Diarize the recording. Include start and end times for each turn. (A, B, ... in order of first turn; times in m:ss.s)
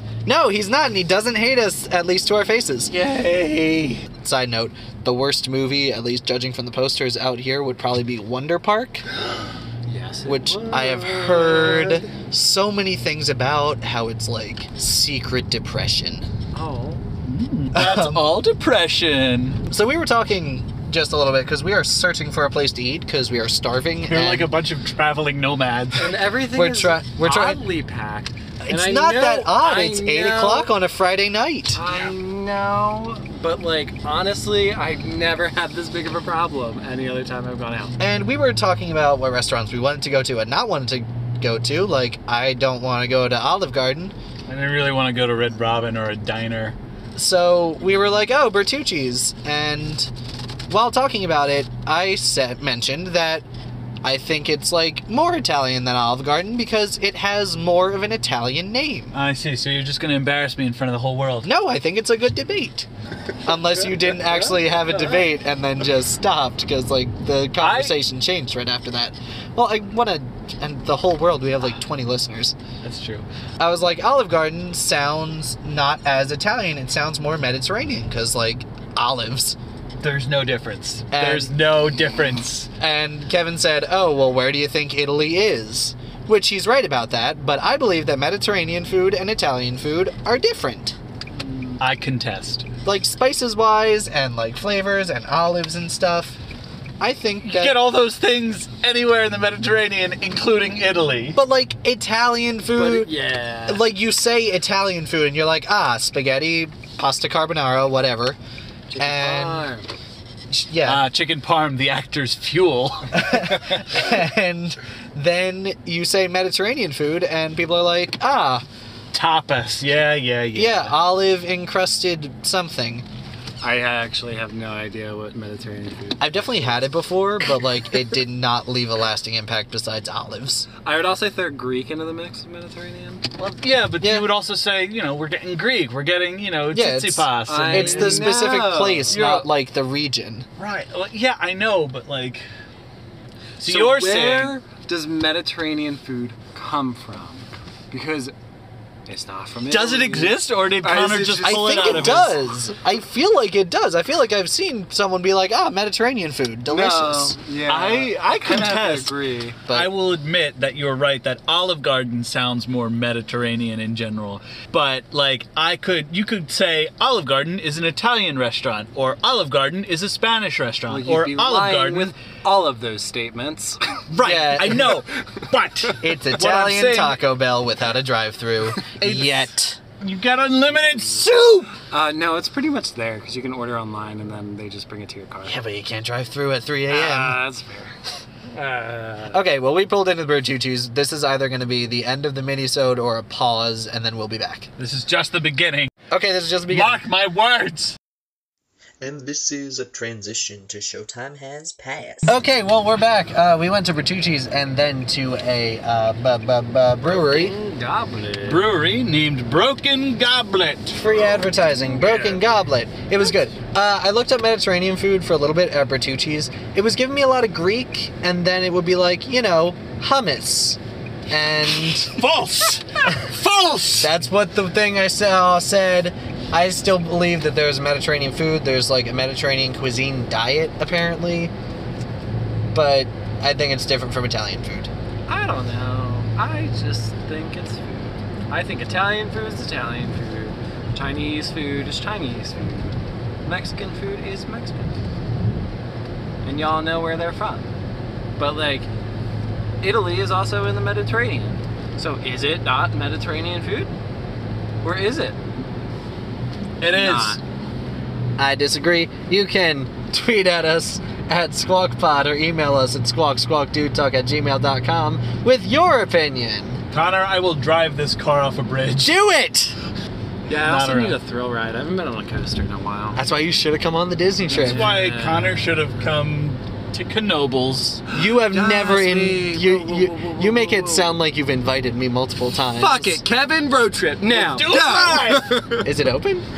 0:00.2-0:02.9 A
0:02.9-0:04.0 B
0:04.2-0:09.0 A
0:09.8-0:12.0 C
0:10.3-0:16.3 A
0:16.5-0:17.0 C
0:17.2-0:19.6 B
0:17.7-0:18.2 A
0:19.6-0:24.5 A
0:24.0-0:26.1 B
0:26.0-0:30.7 C
0:26.5-0:27.6 A
0:28.6-0:31.8 A
0:31.7-0:38.0 C
0:38.0-0:44.1 A
0:44.5-0:46.8 B
0:47.1-0:50.1 A
0:50.7-0:53.4 A
0:54.0-0:59.2 A
0:59.1-1:01.5 B
1:01.4-1:02.9 A
1:03.4-1:12.6 A
1:04.5-1:05.0 C
1:07.6-1:08.0 B
1:12.8-1:13.2 B
1:13.6-1:19.6 A
1:20.0-1:22.7 B
1:21.1-1:21.5 A
1:22.8-1:31.0 A
1:31.8-1:32.7 B
1:32.8-1:36.4 A
1:37.0-1:37.8 A
1:37.4-1:41.4 B
1:41.3-1:43.1 A
1:42.7-1:43.9 C
1:43.7-1:48.4 A
1:48.9-1:49.9 C
1:49.0-1:49.7 A
1:50.5-1:51.0 A
1:50.8-1:54.0 B
1:53.1-1:58.6 A
1:59.1-2:01.0 B
2:00.5-2:03.0 A
2:03.6-2:06.7 C
2:06.2-2:10.7 A
2:10.8-2:13.2 C
2:13.4-2:18.5 B
2:14.0-2:14.3 A
2:16.7-2:20.5 A
2:17.4-2:19.4 C
2:19.1-2:19.4 B
2:20.6-2:22.4 B
2:23.6-2:24.6 B
2:23.6-2:28.3 C
2:29.1-2:32.4 C
2:29.7-2:32.4 B
2:31.4-2:37.4 A
2:36.7-2:39.6 C
2:37.7-2:39.1 B
2:39.7-2:52.1 B
2:50.9-2:53.8 C
2:54.1-2:57.2 B
2:54.2-2:54.9 A
2:56.0-2:59.8 A
2:58.8-2:59.4 C
3:00.0-3:01.7 B
3:01.9-3:05.6 C
3:05.4-3:07.4 A
3:06.9-3:07.9 C
3:08.5-3:09.4 C
3:09.3-3:14.7 A
3:14.8-3:15.9 B
3:16.1-3:17.0 A
3:16.7-3:18.0 B
3:19.0-3:22.4 D
3:22.2-3:27.5 A
3:27.0-3:28.7 C
3:28.4-3:31.1 B
3:30.9-3:42.2 A
3:32.0-3:32.4 C
3:41.6-3:44.1 B
3:44.0-3:51.5 A
3:52.7-3:54.9 A
3:55.3-4:05.0 C
4:06.4-4:07.7 C
4:08.4-4:08.9 C
4:09.8-4:13.9 C
4:14.8-4:15.4 C
4:16.8-4:17.4 B
4:16.9-4:17.4 C
4:18.4-4:26.8 A
4:26.9-4:29.2 B
4:29.0-4:29.8 A
4:30.4-4:33.2 C
4:30.5-4:31.2 B
4:33.2-4:34.8 A
4:34.5-4:35.6 C
4:34.5-4:38.1 B
4:38.1-4:43.2 A
4:38.4-4:41.2 C
4:42.7-4:45.9 C
4:44.3-4:45.6 B
4:45.8-4:46.4 A